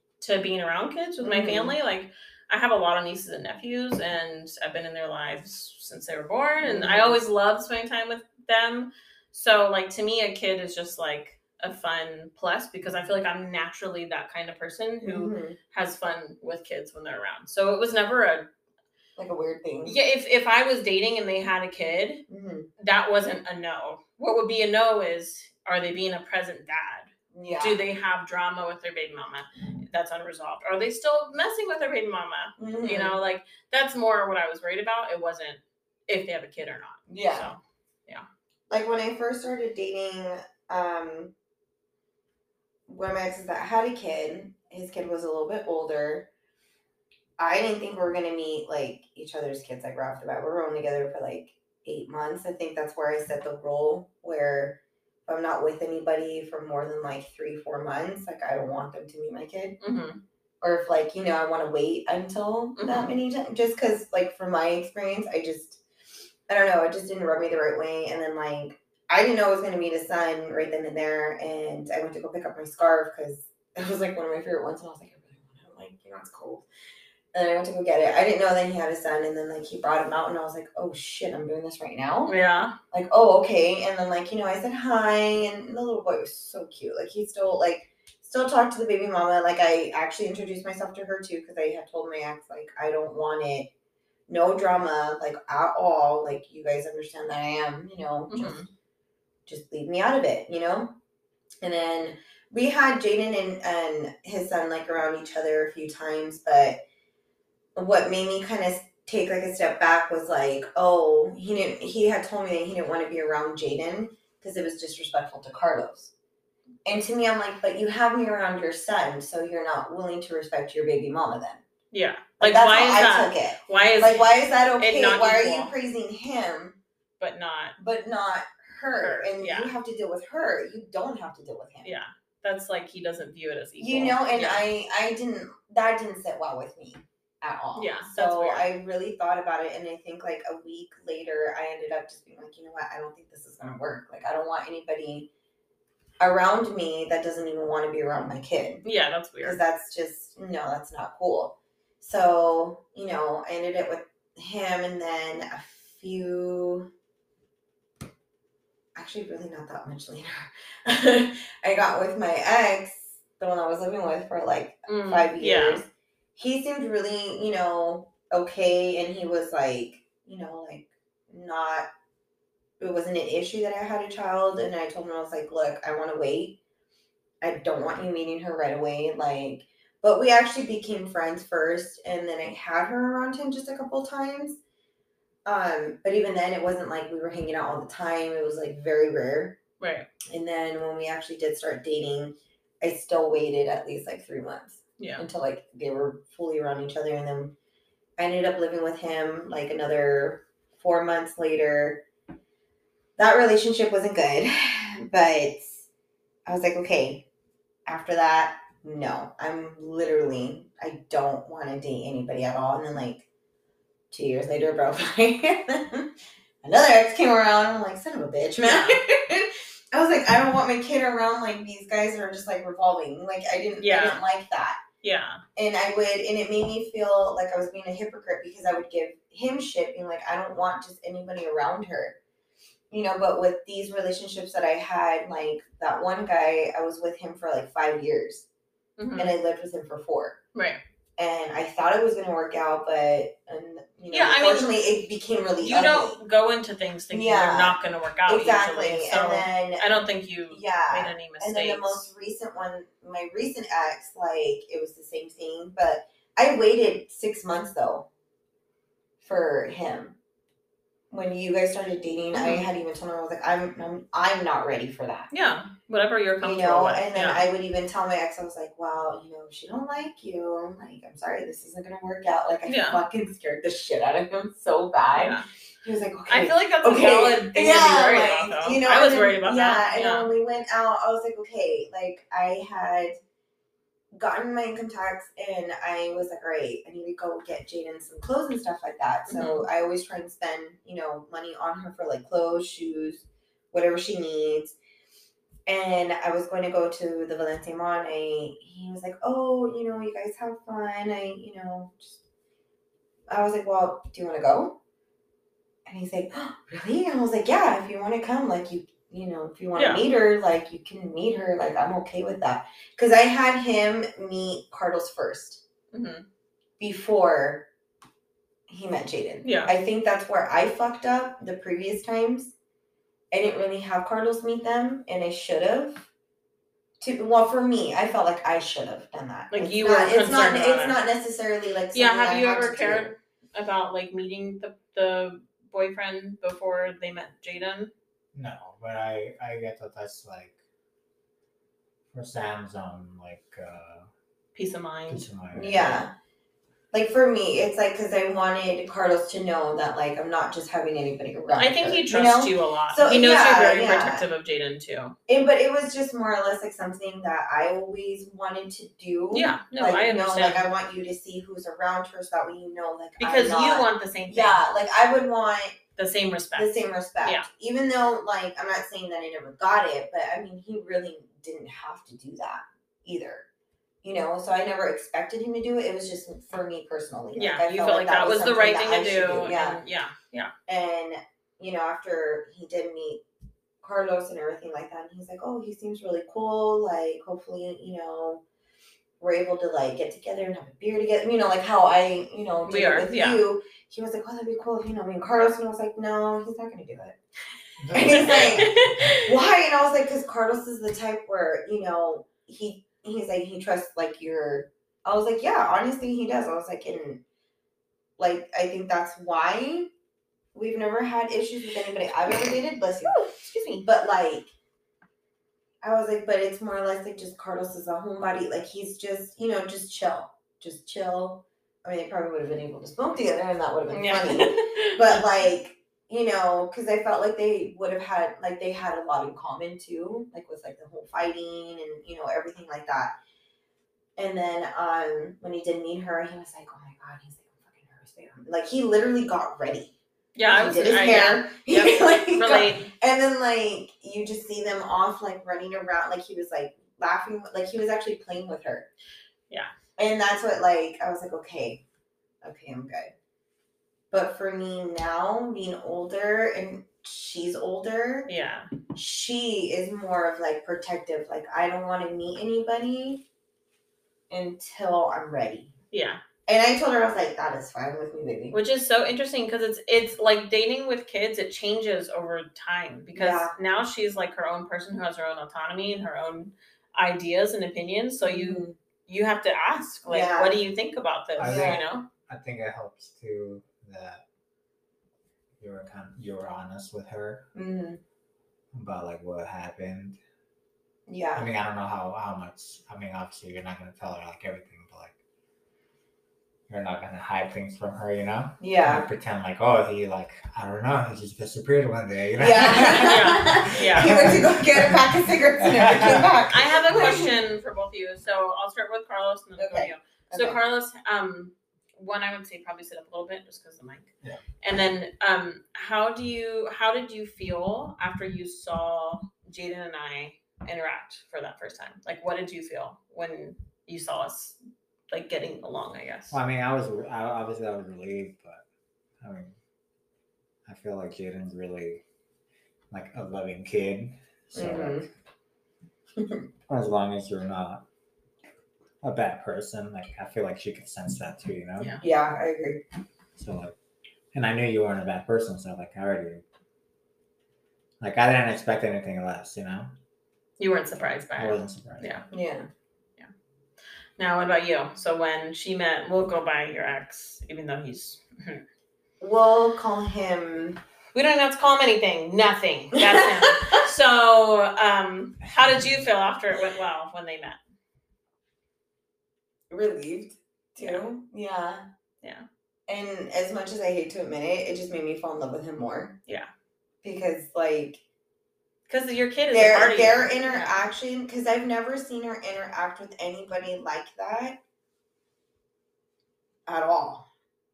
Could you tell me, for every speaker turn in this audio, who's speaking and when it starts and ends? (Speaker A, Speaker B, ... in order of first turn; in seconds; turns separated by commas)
Speaker A: 0.2-18.5, Speaker B: 1.2-1.8, Speaker B: 6.6-7.2, Speaker B: 15.0-15.6, Speaker B: 19.2-20.0, Speaker A: 19.8-22.2, Speaker B: 22.3-22.7, Speaker A: 22.8-38.3, Speaker B: 27.3-27.8, Speaker B: 32.6-33.2, Speaker B: 37.1-37.5, Speaker B: 38.7-41.3, Speaker B: 42.9-46.3, Speaker B: 47.4-59.8, Speaker A: 59.8-60.2, Speaker B: 60.6-65.8, Speaker A: 62.8-63.1, Speaker B: 66.5-76.7, Speaker B: 77.3-82.3, Speaker A: 82.3-82.8, Speaker B: 82.9-93.7, Speaker B: 94.3-98.6, Speaker A: 98.3-98.7, Speaker B: 99.5-101.0, Speaker B: 101.6-106.8, Speaker B: 107.8-116.1, Speaker B: 116.9-121.6, Speaker A: 121.9-125.7, Speaker B: 122.4-126.8, Speaker A: 127.2-127.8, Speaker B: 127.8-131.9, Speaker A: 128.9-129.7, Speaker A: 131.8-134.7, Speaker B: 133.8-145.3, Speaker A: 137.8-138.7, Speaker B: 146.2-148.8, Speaker A: 148.8-149.6, Speaker B: 149.4-156.9, Speaker B: 158.9-171.9, Speaker A: 164.9-165.8, Speaker B: 172.8-176.6, Speaker B: 177.4-184.6, Speaker B: 185.5-189.6, Speaker A: 189.8-190.1, Speaker B: 190.3-197.6, Speaker A: 195.0-195.2, Speaker B: 198.2-202.0, Speaker B: 203.2-205.8, Speaker B: 206.5-207.3, Speaker B: 207.9-213.3, Speaker B: 214.1-216.1, Speaker B: 216.6-224.8, Speaker A: 218.6-219.0, Speaker A: 223.8-224.2, Speaker A: 225.0-225.4, Speaker B: 225.6-232.2, Speaker B: 232.9-238.5, Speaker A: 239.0-239.3, Speaker B: 239.2-240.4, Speaker A: 240.6-240.8, Speaker B: 241.2-246.2, Speaker A: 244.1-244.8, Speaker A: 245.6-252.1, Speaker B: 247.1-249.9, Speaker B: 250.5-258.1, Speaker B: 259.2-260.2, Speaker B: 261.1-265.3, Speaker A: 262.3-262.7, Speaker A: 265.3-267.4, Speaker B: 266.4-283.2, Speaker A: 272.7-273.0, Speaker A: 275.1-275.5, Speaker A: 276.3-280.3, Speaker B: 284.1-294.8, Speaker A: 289.3-289.7, Speaker B: 295.7-302.2, Speaker B: 303.3-304.8, Speaker B: 305.9-315.6, Speaker A: 309.8-310.0, Speaker A: 315.9-316.2, Speaker B: 316.8-317.7, Speaker B: 318.7-322.6, Speaker A: 319.4-319.7, Speaker B: 323.3-326.1, Speaker B: 327.0-333.1, Speaker A: 329.5-331.0, Speaker A: 331.9-337.9, Speaker C: 338.3-340.6, Speaker C: 342.1-344.1, Speaker A: 344.6-345.3, Speaker C: 345.1-346.0, Speaker B: 345.5-346.1, Speaker B: 346.9-354.2, Speaker A: 351.6-355.1, Speaker B: 355.3-365.8, Speaker A: 359.3-360.7, Speaker A: 363.2-364.7, Speaker A: 366.0-367.5, Speaker B: 366.6-373.5, Speaker B: 374.0-379.8, Speaker A: 377.4-380.5, Speaker B: 380.7-383.2, Speaker B: 383.8-388.4, Speaker B: 389.2-397.2, Speaker A: 392.7-393.4, Speaker C: 397.8-398.8, Speaker B: 397.9-407.2, Speaker A: 398.1-399.3, Speaker B: 408.2-409.9, Speaker B: 410.5-414.5, Speaker A: 413.1-413.9, Speaker B: 415.8-433.1, Speaker A: 423.9-425.2, Speaker B: 434.2-439.9, Speaker A: 440.4-442.9, Speaker B: 440.5-448.9, Speaker B: 450.0-451.8, Speaker B: 452.4-453.1, Speaker B: 454.1-458.3, Speaker A: 458.3-458.7, Speaker B: 458.9-463.2, Speaker B: 464.3-465.7, Speaker A: 465.9-466.2, Speaker B: 466.5-468.6, Speaker A: 468.5-482.1, Speaker B: 473.1-473.6, Speaker B: 478.2-478.8, Speaker B: 480.1-480.6, Speaker C: 481.4-484.2, Speaker B: 481.4-481.9, Speaker C: 485.6-487.5, Speaker B: 487.5-488.0, Speaker C: 488.7-490.2, Speaker B: 491.1-491.5, Speaker C: 491.4-495.2, Speaker C: 496.7-505.1, Speaker B: 498.6-499.1, Speaker B: 502.4-507.4, Speaker A: 503.0-504.1, Speaker C: 505.6-506.4, Speaker A: 506.5-514.1, Speaker B: 509.6-510.6, Speaker A: 514.6-524.6, Speaker A: 525.1-526.4, Speaker C: 526.3-528.6, Speaker C: 529.2-529.5, Speaker C: 530.7-532.0, Speaker C: 532.9-535.1, Speaker B: 534.5-535.1, Speaker B: 536.2-536.4, Speaker C: 536.7-537.9, Speaker C: 539.0-542.0, Speaker B: 542.0-542.8, Speaker C: 543.4-543.8, Speaker C: 544.3-546.4, Speaker C: 548.0-550.0, Speaker A: 550.6-552.3, Speaker C: 551.4-552.1, Speaker B: 552.3-552.7, Speaker A: 554.2-558.6, Speaker B: 559.2-560.8, Speaker A: 561.1-567.6, Speaker B: 563.0-563.8, Speaker B: 569.7-571.9, Speaker A: 570.8-571.0, Speaker B: 572.9-576.2, Speaker B: 577.0-578.0, Speaker A: 578.9-580.8, Speaker B: 579.5-584.6, Speaker B: 586.7-587.3